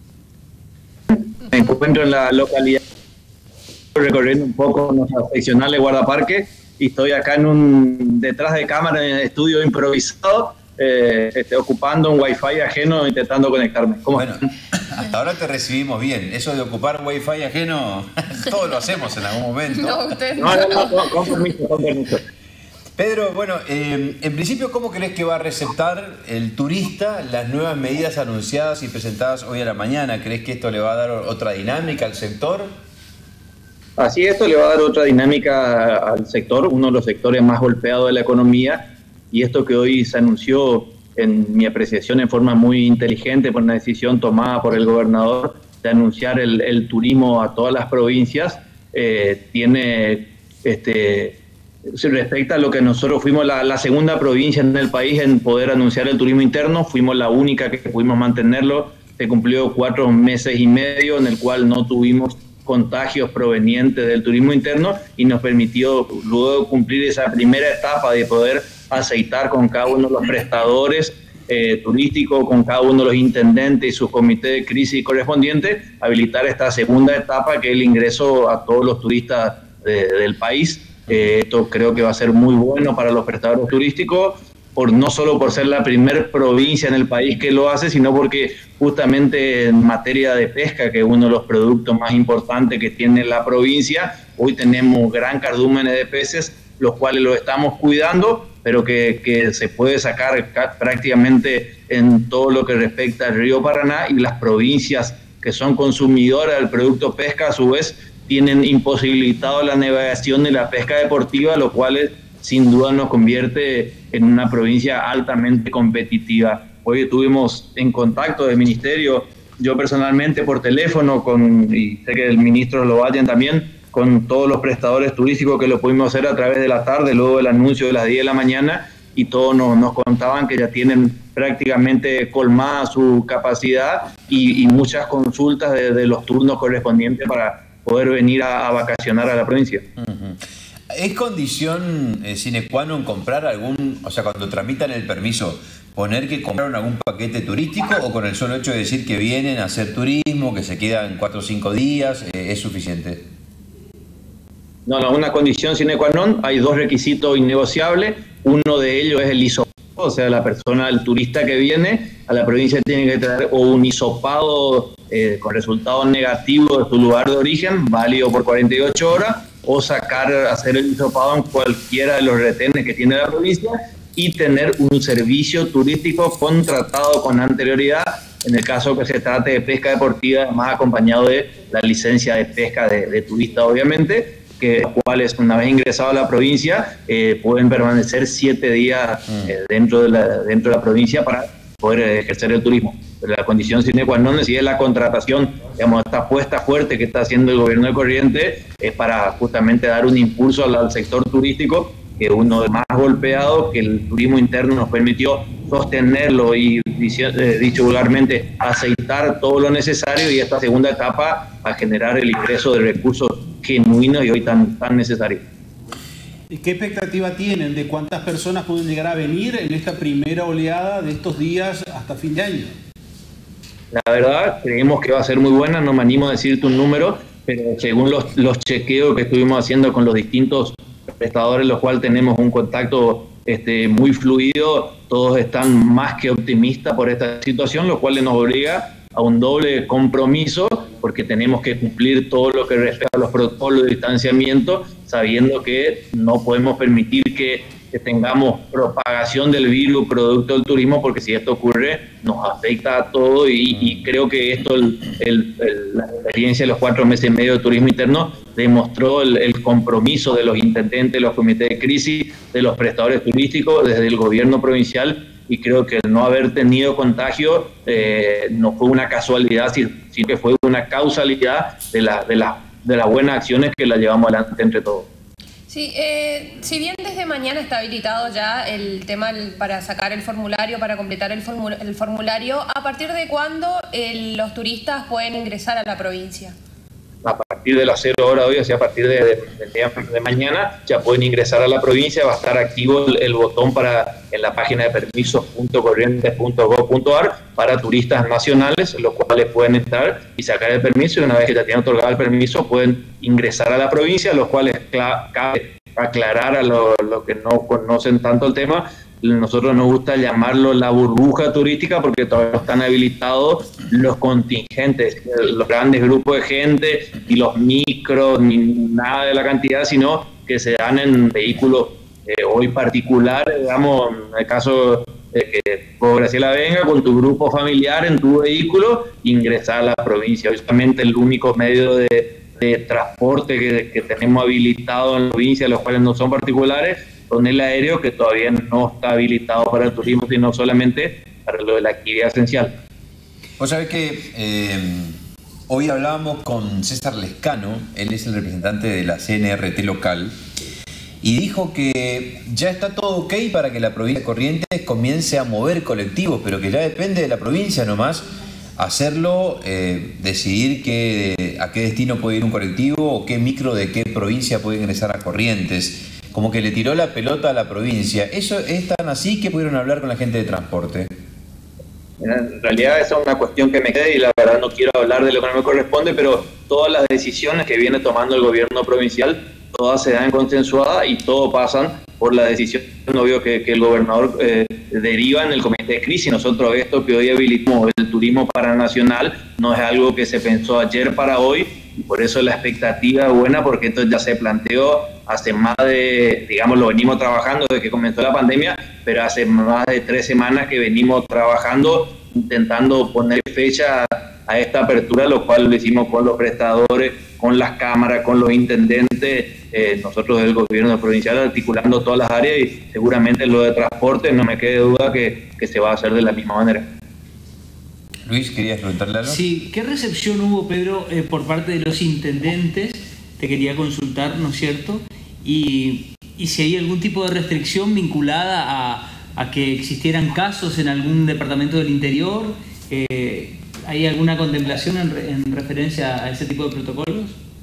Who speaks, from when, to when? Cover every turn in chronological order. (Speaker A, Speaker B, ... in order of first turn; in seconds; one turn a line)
Speaker A: 1.1-2.8
Speaker A: 4.0-14.3
Speaker B: 14.1-20.0
Speaker C: 19.7-21.4
Speaker A: 20.4-22.2
Speaker B: 22.9-32.7
Speaker A: 34.0-51.4
Speaker A: 51.9-139.8
Speaker B: 140.0-140.4
Speaker B: 140.9-153.2
Speaker A: 154.8-215.4
Speaker D: 216.5-222.7
Speaker A: 223.9-275.1
Speaker C: 275.7-286.6
Speaker A: 287.2-342.8
Speaker B: 343.6-345.1
Speaker B: 345.7-350.3
Speaker B: 351.2-371.1
Speaker A: 372.2-416.9
Speaker B: 418.2-419.4
Speaker E: 419.2-437.4